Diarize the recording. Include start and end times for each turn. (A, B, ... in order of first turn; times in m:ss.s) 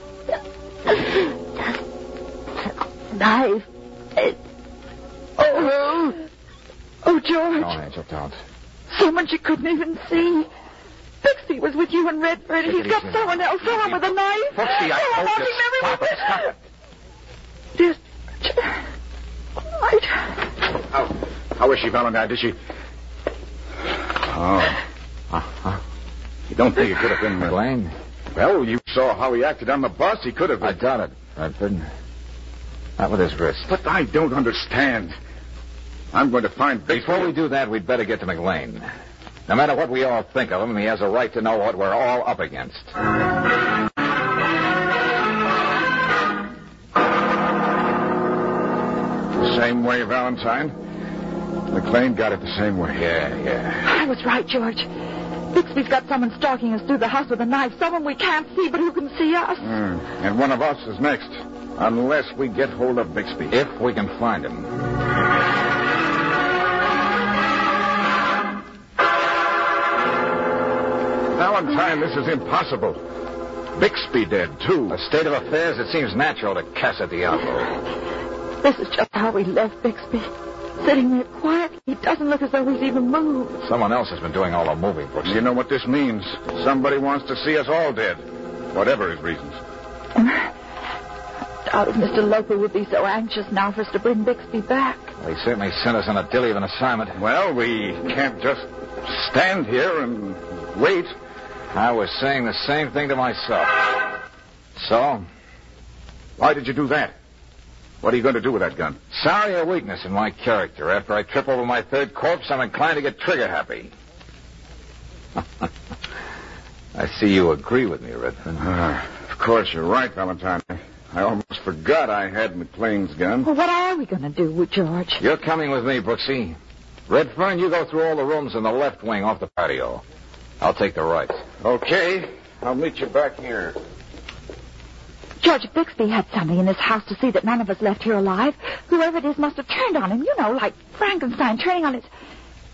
0:03.1-0:04.4 A
0:05.4-0:06.2 A
0:07.0-0:07.8 A
0:07.6-0:08.4 B
0:08.9-0:10.5 A
0:11.2-0:16.5 A
0:12.6-0:16.5 B
0:17.8-0:18.8 A
0:19.7-0:20.4 A
0:20.9-0:22.6 C
0:24.3-0:24.8 C
0:25.3-0:25.8 B
0:26.5-0:27.6 C
0:27.4-0:27.9 B
0:28.3-0:30.8 C
0:30.6-0:31.9 B
0:33.0-0:33.7 B
0:33.7-0:35.2 C
0:36.1-0:37.3 C
0:36.9-0:38.9 B
0:39.5-0:42.9 B
0:49.4-0:50.8 C
0:51.7-0:53.6 C
0:53.4-0:53.8 B
0:53.9-0:54.9 A
0:55.5-0:59.7 A
0:59.6-1:03.6 C
1:03.5-1:04.7 B
1:11.3-1:13.0 C
1:13.8-1:15.0 C
1:14.9-1:17.8 B
1:18.6-1:23.6 A
1:23.6-1:25.4 B
1:25.2-1:29.6 C
1:30.2-1:30.5 A
1:31.7-1:35.1 A
1:35.2-1:37.2 B
1:37.2-1:41.2 C
1:41.7-1:43.9 B
1:44.8-1:45.2 B
1:46.4-1:47.1 C
1:48.0-1:49.0 C
1:49.1-1:53.9 B
1:57.0-1:58.6 B
1:58.6-2:03.5 C
2:03.4-2:05.2 A
2:05.2-2:06.6 B
2:07.1-2:10.0 B
2:10.6-2:11.4 B
2:11.6-2:13.8 C
2:15.4-2:22.1 A